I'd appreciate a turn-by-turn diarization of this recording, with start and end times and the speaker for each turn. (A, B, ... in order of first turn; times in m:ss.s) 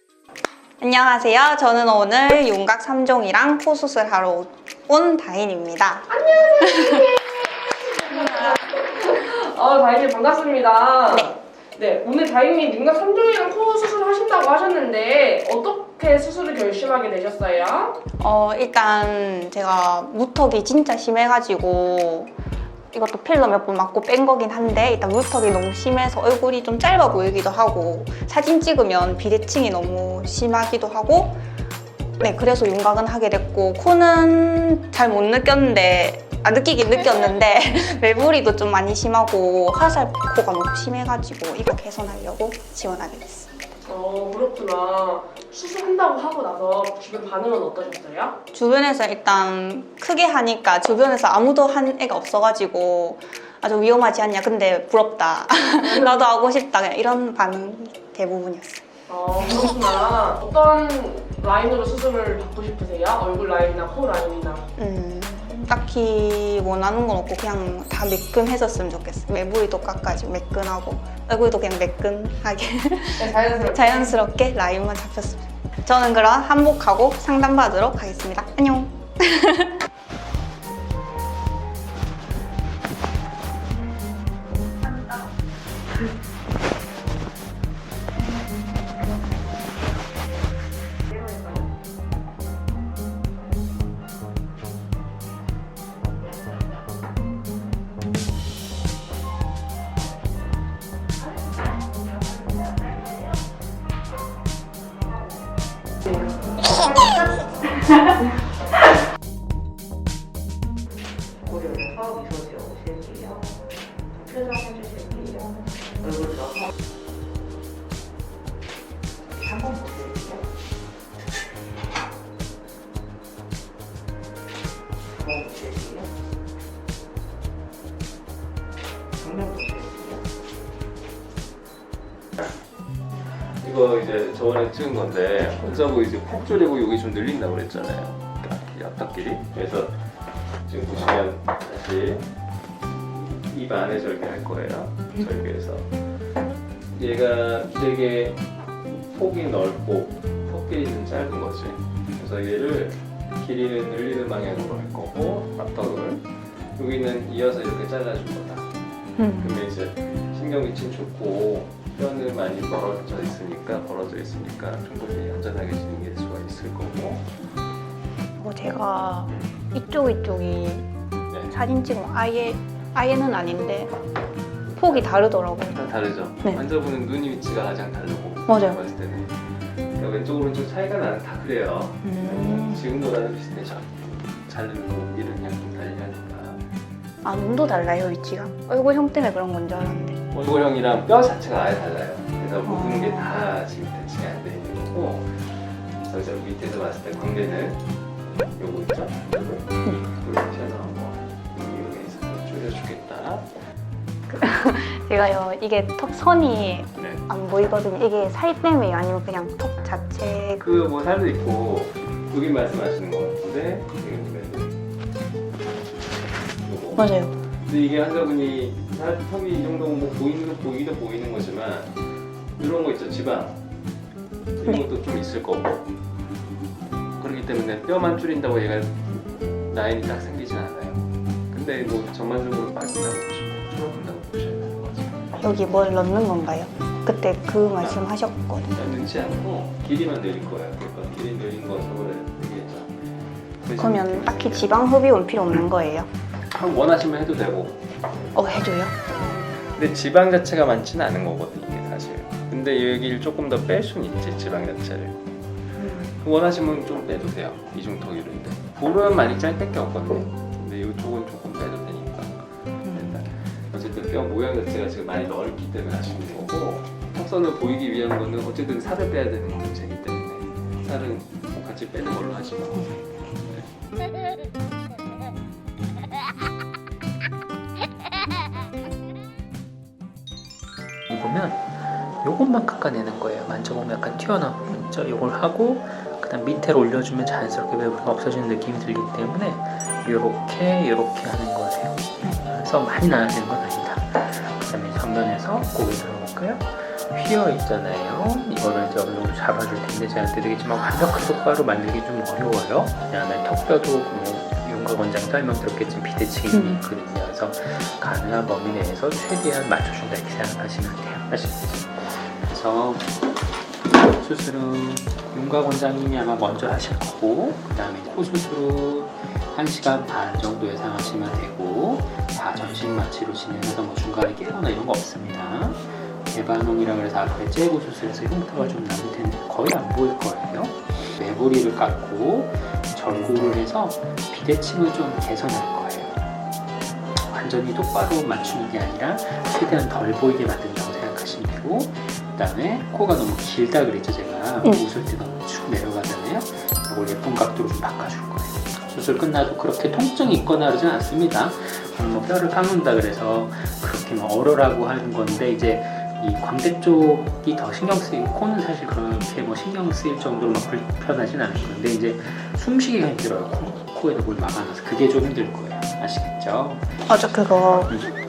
0:00.8-0:07.1 A
0:06.1-0:18.0 B
0:08.1-0:08.6 A
0:18.2-0:22.3 A
0:22.9-0:31.4 A
0:32.2-0:43.6 A
0:43.8-0:48.4 B
0:48.5-0:58.8 A
0:55.8-0:56.2 B
0:59.1-1:04.6 B
1:04.8-1:19.8 A
1:13.2-1:14.2 B
1:46.5-1:47.4 C
1:51.4-1:53.6 C
1:54.1-1:56.7 C
1:59.3-2:00.4 C
2:05.1-2:06.1 C
2:09.2-2:10.2 C
2:13.6-2:20.0 D
2:20.7-2:22.3 D
2:23.1-2:25.9 D
2:26.9-2:38.7 D
2:39.2-2:39.6 A
2:39.4-2:47.2 D
2:48.4-2:50.9 A
2:51.3-2:51.6 D
2:51.5-2:53.9 A
2:54.7-2:59.4 D
2:54.8-2:55.8 A
2:58.5-2:58.8 A
2:59.9-3:06.6 D
3:02.0-3:02.8 A
3:07.2-3:10.2 A
3:10.3-3:15.4 D
3:12.7-3:13.3 A
3:16.0-3:23.5 D
3:24.3-3:30.6 A
3:27.0-3:27.2 D
3:30.6-3:34.7 D
3:36.6-3:37.0 D
3:37.0-3:37.3 A
3:37.7-3:42.0 D
3:42.6-3:43.6 D
3:44.6-3:45.8 D
3:47.2-3:55.4 D
3:55.4-3:58.8 A
3:57.8-3:58.1 D
3:58.7-4:02.9 D
4:03.6-4:04.8 D
4:03.8-4:06.1 A
4:06.5-4:07.8 D
4:08.3-4:08.9 A
4:09.7-4:15.2 D
4:16.0-4:33.7 D
4:41.1-5:13.1 E
5:06.5-5:06.8 A
5:14.0-5:36.2 E
5:37.2-6:07.3 E
6:07.1-6:07.9 A
6:07.9-6:08.1 E